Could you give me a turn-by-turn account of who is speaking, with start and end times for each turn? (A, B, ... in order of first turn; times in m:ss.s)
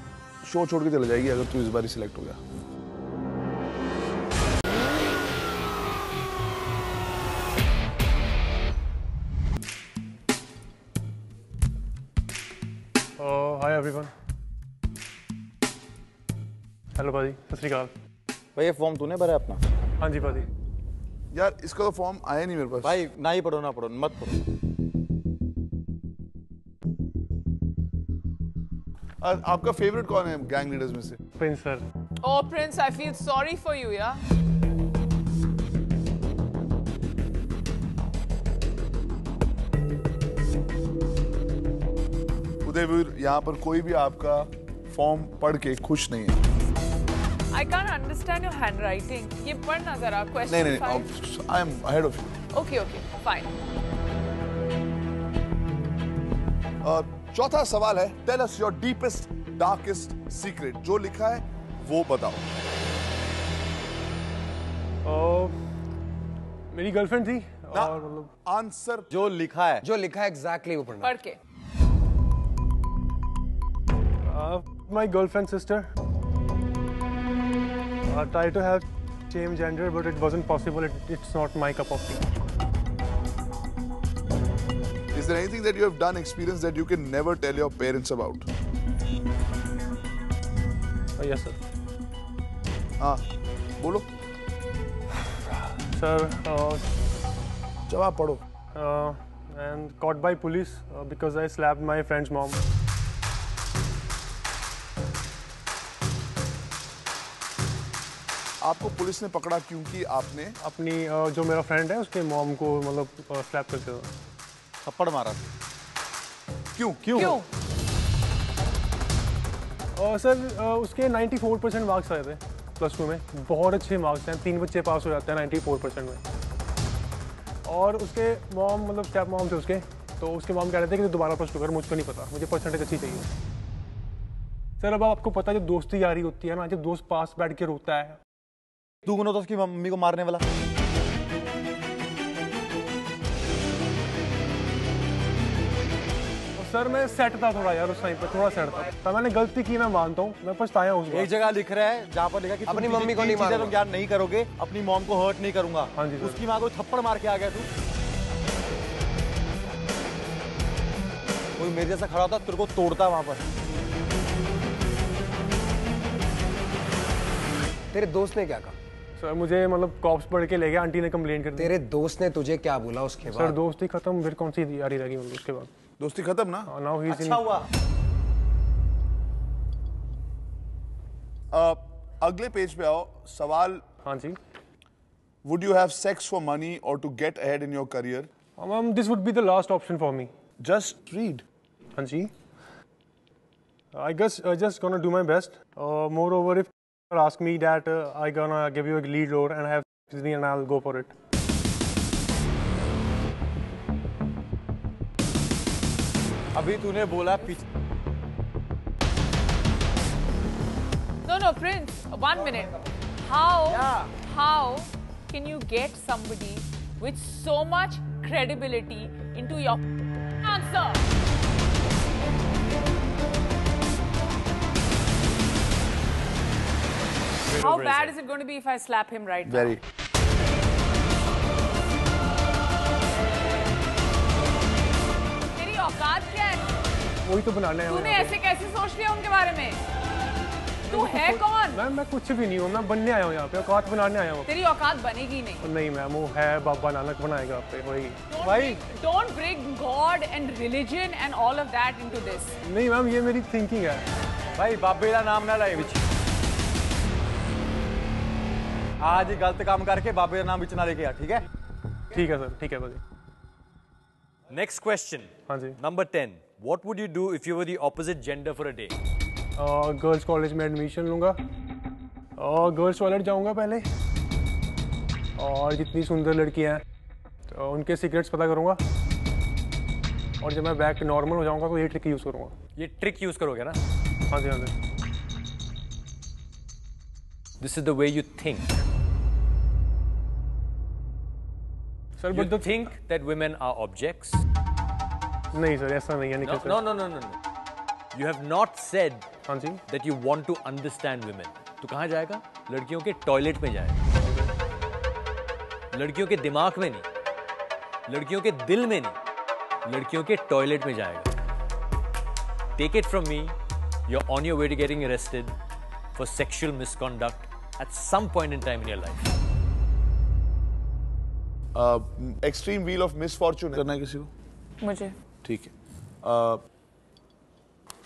0:00.4-0:02.4 A
0:13.2-0:14.1 B
0:17.0-0:17.9 B
0:18.6-0:19.6 C
0:20.0-0:20.5 B
0:21.3-0:23.0 A
0:22.8-0:24.4 C
0:29.2-0:31.2 A
0:31.4-0:31.8 B
0:32.2-0:34.2 D
0:42.6-0:46.4 A
0:47.5-0:51.1 D
0:50.5-0:52.3 A
0:52.5-0:53.5 D
0:56.8-1:02.5 A
1:05.0-1:05.5 B
1:06.7-1:08.3 B
1:07.7-1:09.1 A
1:09.1-1:09.8 C
1:09.8-1:11.1 E
1:11.0-1:11.4 D
1:14.2-1:15.9 B
1:18.1-1:22.3 B
1:25.1-1:28.5 A
1:31.2-1:31.6 B
1:33.8-1:34.1 A
1:35.9-1:36.8 B
1:37.9-1:38.4 A
1:38.7-1:42.6 B
1:48.6-1:50.6 A
1:50.6-1:54.1 B
1:54.8-1:55.4 C
1:56.7-1:57.4 A
1:57.0-1:57.4 C
1:57.2-1:57.4 D
2:00.0-2:06.2 B
2:07.6-2:13.3 B
2:14.8-2:18.2 B
2:19.0-2:20.4 C
2:26.6-2:31.3 B
2:31.1-2:37.7 C
2:32.6-2:33.8 E
2:35.9-2:36.4 B
2:41.6-2:43.4 C
2:47.9-2:48.7 E
2:49.2-2:51.7 B
2:51.6-2:53.6 E
2:53.3-2:55.7 B
2:56.0-2:56.7 A
2:56.7-2:57.6 B
2:57.1-2:57.6 C
3:01.5-3:03.8 A
3:04.0-3:04.4 B
3:05.4-3:08.3 A
3:08.6-3:10.3 B
3:10.6-3:11.4 A
3:12.0-3:12.3 B
3:13.9-3:21.1 B
3:26.5-3:27.6 C
3:31.2-3:39.8 D
3:33.7-3:34.1 C
3:40.4-3:41.0 D
3:47.6-3:47.8 B
3:47.6-3:49.7 D
3:49.4-3:49.8 A
3:55.5-3:56.6 D
3:57.2-3:58.4 B
3:57.8-3:59.8 D
4:00.8-4:01.8 D
4:00.9-4:04.5 B
4:04.4-4:05.7 D
4:05.6-4:08.6 B
4:08.3-4:12.6 D
4:08.4-4:08.8 C
4:12.6-4:14.0 B
4:14.6-4:16.0 C
4:19.0-4:21.4 C
4:22.1-4:23.0 B
4:24.5-4:29.0 F
4:25.5-4:25.8 B
4:29.6-4:31.4 B
4:32.4-4:33.8 B
4:35.4-4:36.8 B
4:37.5-4:38.8 B
4:40.4-4:42.5 B
4:42.8-4:43.8 F
4:44.3-4:44.7 B
4:47.6-4:48.8 F
4:52.2-4:52.9 B
4:52.3-4:54.4 F
4:55.5-4:56.8 B
4:56.4-4:57.4 F
4:58.1-4:59.2 F
4:59.5-4:59.8 B
4:59.9-5:04.0 F
5:04.2-5:04.5 B
5:05.9-5:07.0 F
5:08.1-5:09.2 F
5:09.8-5:11.3 F
5:12.8-5:13.5 F
5:14.1-5:15.5 F
5:16.2-5:19.2 F
5:21.7-5:23.9 A
5:23.8-5:24.3 C
5:24.8-5:25.1 D
5:25.4-5:25.7 A
5:26.2-5:26.6 A